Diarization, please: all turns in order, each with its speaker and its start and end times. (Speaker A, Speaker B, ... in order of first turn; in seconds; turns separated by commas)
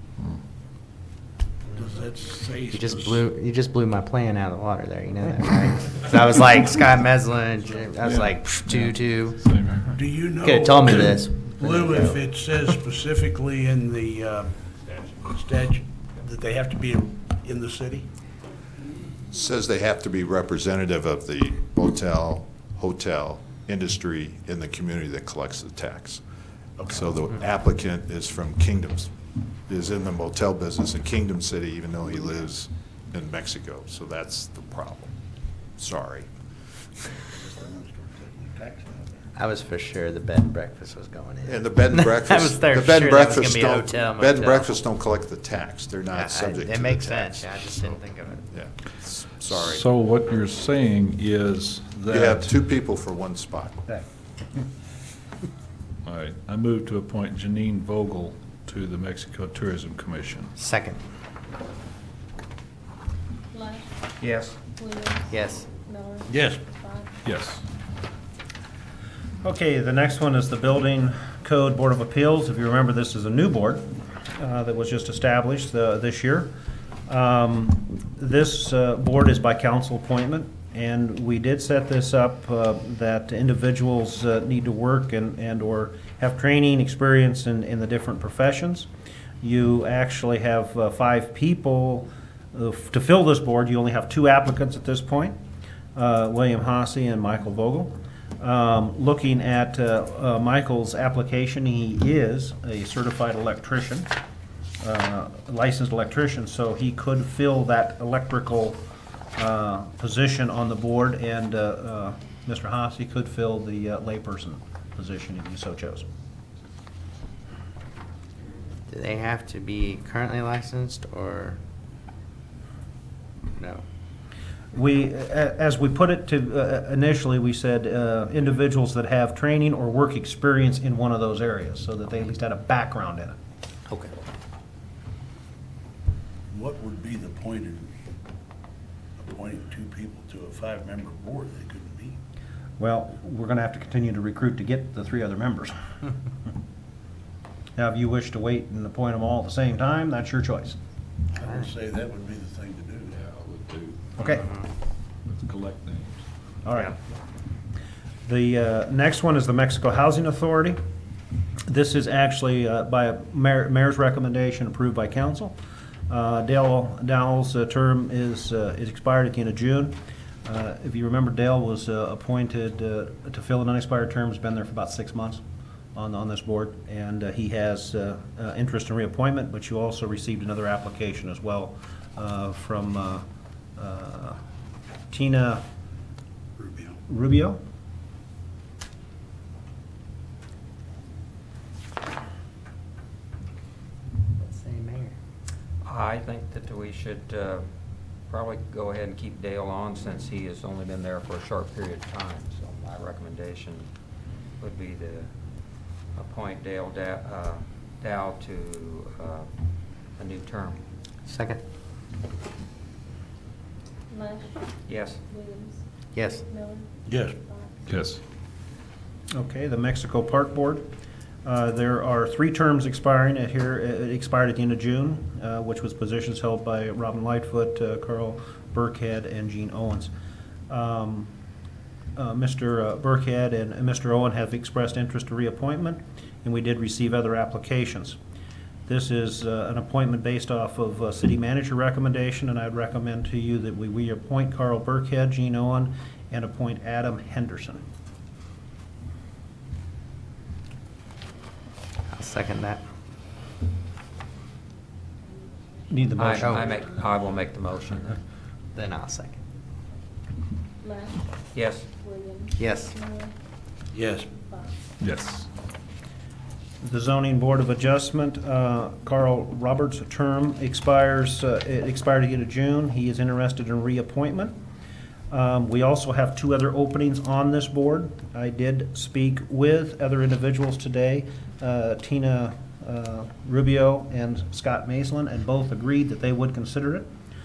Speaker A: 1.7-3.2, Speaker B: 2.7-9.4, Speaker C: 8.0-10.0, Speaker A: 9.9-18.1, Speaker B: 10.4-12.2, Speaker D: 19.3-26.2, Speaker A: 26.8-27.1, Speaker D: 26.9-29.1, Speaker D: 29.7-35.1, Speaker D: 35.8-36.3, Speaker A: 37.3-39.3, Speaker B: 39.4-44.7, Speaker D: 41.4-48.0, Speaker B: 46.1-48.5, Speaker D: 48.5-49.8, Speaker C: 49.5-52.5, Speaker D: 52.1-53.9, Speaker C: 56.0-60.5, Speaker B: 60.6-61.0, Speaker E: 63.5-63.9, Speaker F: 64.2-64.6, Speaker E: 64.8-67.2, Speaker B: 65.3-65.7, Speaker A: 66.3-66.7, Speaker C: 67.2-67.6, Speaker G: 69.4-76.5, Speaker G: 77.1-88.9, Speaker G: 89.4-95.4, Speaker G: 96.0-104.1, Speaker G: 104.8-108.8, Speaker G: 109.4-116.1, Speaker B: 118.9-121.6, Speaker B: 123.5-123.8, Speaker G: 124.7-133.4, Speaker A: 136.5-137.9, Speaker A: 139.2-142.2, Speaker G: 142.8-145.7, Speaker G: 147.8-150.8, Speaker A: 151.3-153.3, Speaker C: 153.3-154.1, Speaker G: 154.2-154.5, Speaker C: 155.2-156.2, Speaker G: 156.6-156.9, Speaker G: 158.2-160.8, Speaker G: 161.7-165.5, Speaker G: 166.1-175.4, Speaker G: 175.9-183.2, Speaker G: 183.8-184.4, Speaker G: 185.1-185.6, Speaker A: 186.6-187.0, Speaker G: 187.1-187.6, Speaker B: 194.4-195.1, Speaker F: 195.8-197.7, Speaker F: 198.3-203.9, Speaker F: 204.6-205.3, Speaker F: 206.1-209.5, Speaker F: 210.2-210.8, Speaker B: 211.3-211.6, Speaker E: 214.1-215.8, Speaker F: 214.9-215.2, Speaker B: 216.1-216.4, Speaker E: 216.4-216.9, Speaker A: 217.1-217.4, Speaker E: 217.4-217.8, Speaker C: 217.9-218.2, Speaker G: 219.3-220.9, Speaker G: 221.4-230.1, Speaker G: 230.7-231.3, Speaker G: 232.2-238.2, Speaker G: 238.9-247.8, Speaker B: 252.1-252.8, Speaker G: 255.9-256.6, Speaker F: 256.2-258.2, Speaker B: 256.4-256.8, Speaker B: 258.8-259.4, Speaker E: 260.8-261.2, Speaker F: 261.6-261.9, Speaker E: 262.0-263.3, Speaker B: 262.6-262.9, Speaker A: 263.9-264.3, Speaker E: 264.5-264.7, Speaker C: 265.0-265.5, Speaker G: 266.8-274.6, Speaker G: 275.3-287.1